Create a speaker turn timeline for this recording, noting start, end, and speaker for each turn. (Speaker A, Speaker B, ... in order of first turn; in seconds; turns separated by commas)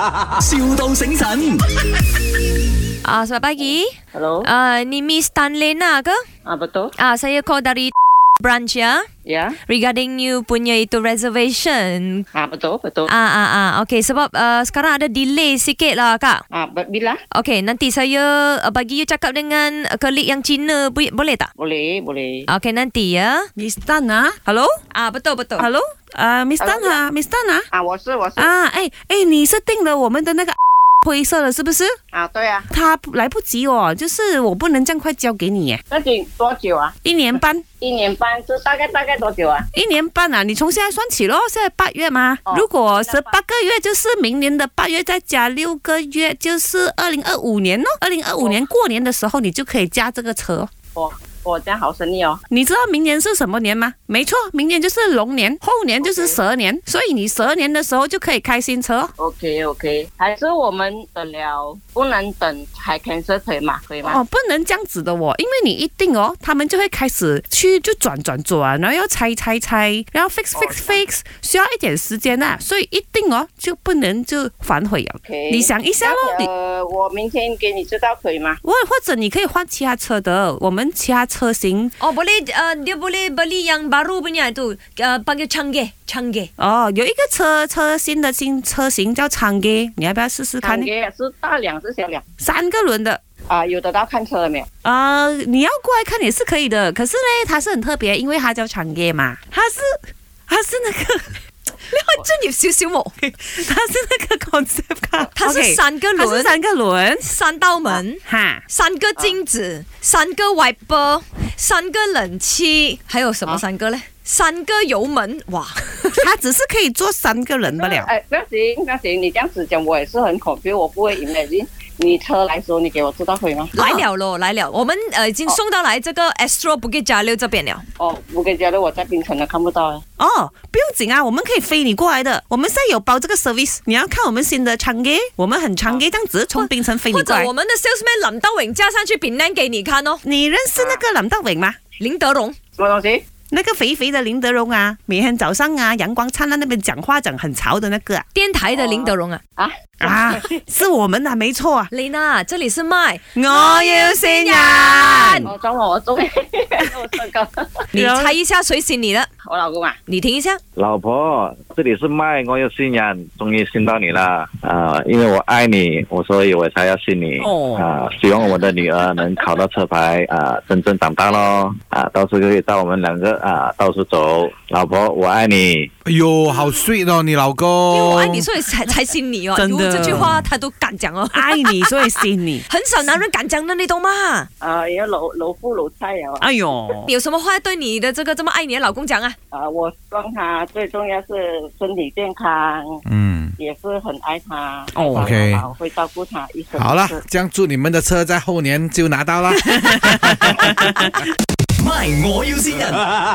Speaker A: 0.3-1.6, Speaker B: 3.0-6.2, Speaker C: 4.1-4.5, Speaker C: 6.5-6.9, Speaker B: 7.0-9.1, Speaker C: 9.2-9.6, Speaker B: 9.6-12.2, Speaker C: 12.3-13.1, Speaker B: 13.1-16.4, Speaker C: 16.5-17.2, Speaker B: 17.3-21.5, Speaker C: 21.6-22.4, Speaker B: 22.5-23.5, Speaker D: 23.6-24.8, Speaker B: 24.9-25.7, Speaker D: 25.6-27.7, Speaker C: 26.6-27.0, Speaker C: 27.7-28.5, Speaker D: 28.4-32.0, Speaker C: 32.1-32.7, Speaker D: 32.7-35.8, Speaker C: 35.9-36.9, Speaker D: 37.0-37.6, Speaker C: 37.8-39.7, Speaker D: 39.7-50.7, Speaker C: 42.5-43.4, Speaker C: 48.4-48.6, Speaker C: 50.9-52.4, Speaker D: 52.5-59.1, Speaker C: 56.0-56.4, Speaker C: 59.2-64.2, Speaker D: 64.0-76.5, Speaker C: 70.5-71.0, Speaker C: 75.2-78.6, Speaker D: 78.6-82.0, Speaker B: 82.0-86.5, Speaker D: 86.6-90.9, Speaker C: 90.6-92.2, Speaker D: 92.4-93.2, Speaker C: 93.5-94.7, Speaker D: 94.8-101.4, Speaker B: 101.8-103.3, Speaker D: 103.3-107.2, Speaker B: 105.3-106.5, Speaker B: 107.2-116.2, Speaker D: 107.9-108.6, Speaker D: 116.2-118.1, Speaker C: 117.7-123.7, Speaker B: 123.7-127.8, Speaker D: 123.8-124.0, Speaker C: 128.0-130.0, Speaker D: 130.2-137.5, Speaker B: 136.5-140.2, Speaker D: 140.2-141.8, Speaker C: 140.8-141.0, Speaker B: 142.0-142.6, Speaker C: 142.8-143.2, Speaker D: 143.5-148.2, Speaker B: 148.3-149.4, Speaker C: 148.7-150.7, Speaker D: 150.0-151.9, Speaker B: 151.9-155.5, Speaker D: 153.3-155.5, Speaker C: 155.4-157.9, Speaker B: 157.9-159.3, Speaker D: 157.9-158.3, Speaker C: 159.4-160.0, Speaker B: 160.1-160.6, Speaker E: 160.8-175.9, Speaker D: 167.4-167.8, Speaker F: 176.1-178.5, Speaker B: 177.9-181.9, Speaker D: 179.6-180.4, Speaker D: 181.3-182.6, Speaker B: 182.7-184.5, Speaker C: 184.6-186.5, Speaker D: 186.4-187.1, Speaker B: 187.0-189.3, Speaker C: 189.5-193.0, Speaker F: 193.1-193.5, Speaker C: 193.6-197.2, Speaker D: 194.9-195.3, Speaker F: 195.0-195.7, Speaker F: 196.7-201.1, Speaker A: 201.8-203.1